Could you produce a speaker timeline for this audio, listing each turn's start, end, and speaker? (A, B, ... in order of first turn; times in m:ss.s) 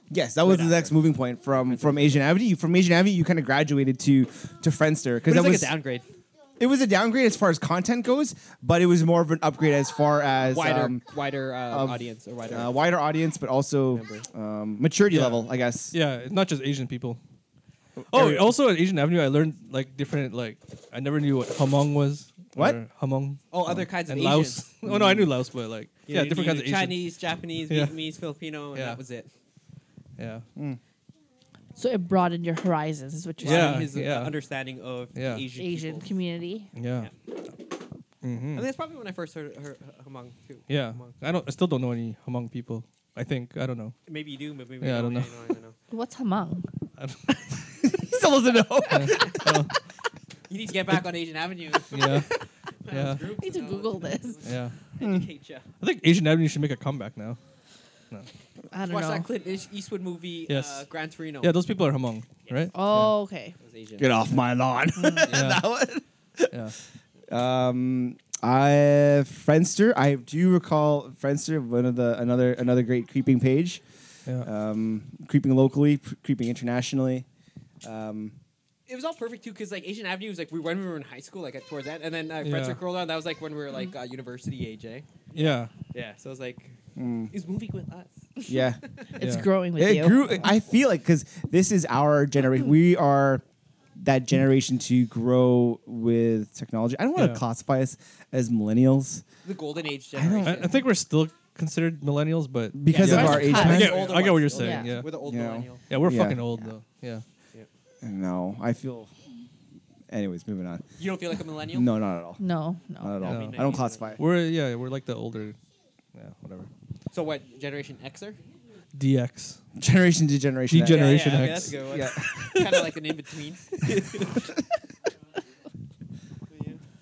0:00.1-0:05.8 A
0:00.4-0:01.0 B
0:01.6-0:02.2 B
0:05.3-0:06.1 B
0:06.6-0:11.1 A
0:10.5-0:12.8 B
0:11.7-0:16.0 A
0:13.9-0:14.3 B
0:15.1-0:17.2 C
0:18.0-0:18.5 A
0:18.1-0:27.1 C
0:23.5-0:24.7 B
0:24.8-0:25.3 A
0:26.1-0:29.3 B
0:27.7-0:28.0 C
0:28.7-0:29.0 C
0:30.2-0:30.4 C
0:31.8-0:33.9 D
0:33.4-0:36.1 B
0:33.4-0:34.4 C
0:35.2-0:35.5 C
0:35.6-0:36.7 D
0:36.8-0:37.1 C
0:38.2-0:38.7 C
0:38.6-0:41.1 B
0:40.7-0:44.0 C
0:44.1-0:45.8 B
0:44.8-0:45.3 C
0:45.9-0:46.7 D
0:47.0-0:47.7 C
0:47.8-0:49.7 A
0:48.9-0:49.7 C
0:50.5-0:55.7 B
0:51.9-0:52.3 C
0:52.9-0:53.2 C
0:53.4-0:54.4 D
0:54.4-0:54.7 C
0:55.0-0:55.3 A
0:55.8-0:57.4 C
0:58.7-0:59.3 D
0:58.9-1:01.5 B
1:00.5-1:00.9 C
1:01.4-1:03.1 C
1:02.7-1:03.6 D
1:03.6-1:04.2 B
1:04.0-1:06.6 A
1:05.3-1:05.6 C
1:06.5-1:06.8 C
1:07.3-1:13.8 A
1:14.4-1:17.3 A
1:17.8-1:18.4 A
1:18.9-1:26.8 B
1:22.4-1:22.8 C
1:25.3-1:25.7 C
1:27.0-1:27.3 A
1:27.3-1:28.4 B
1:28.5-1:28.8 A
1:29.1-1:30.5 D
1:29.2-1:29.5 C
1:29.8-1:33.4 A
1:34.0-1:39.2 A
1:37.2-1:37.4 C
1:39.4-1:40.8 B
1:40.1-1:40.8 A
1:40.4-1:45.2 C
1:42.7-1:44.0 A
1:42.9-1:45.9 B
1:43.0-1:44.0 D
1:44.6-1:45.0 D
1:45.1-1:46.7 A
1:45.9-1:47.2 C
1:48.0-1:49.1 A
1:50.1-1:50.8 A
1:51.0-1:51.9 B
1:51.7-1:52.4 A
1:52.4-1:53.3 D
1:53.0-1:54.2 A
1:53.2-1:54.2 B
1:53.2-1:55.6 C
1:56.1-1:56.7 C
1:57.1-1:58.4 B
1:58.9-1:59.6 C
1:59.8-2:02.7 A
2:00.7-2:01.8 C
2:00.8-2:04.5 B
2:06.5-2:06.8 B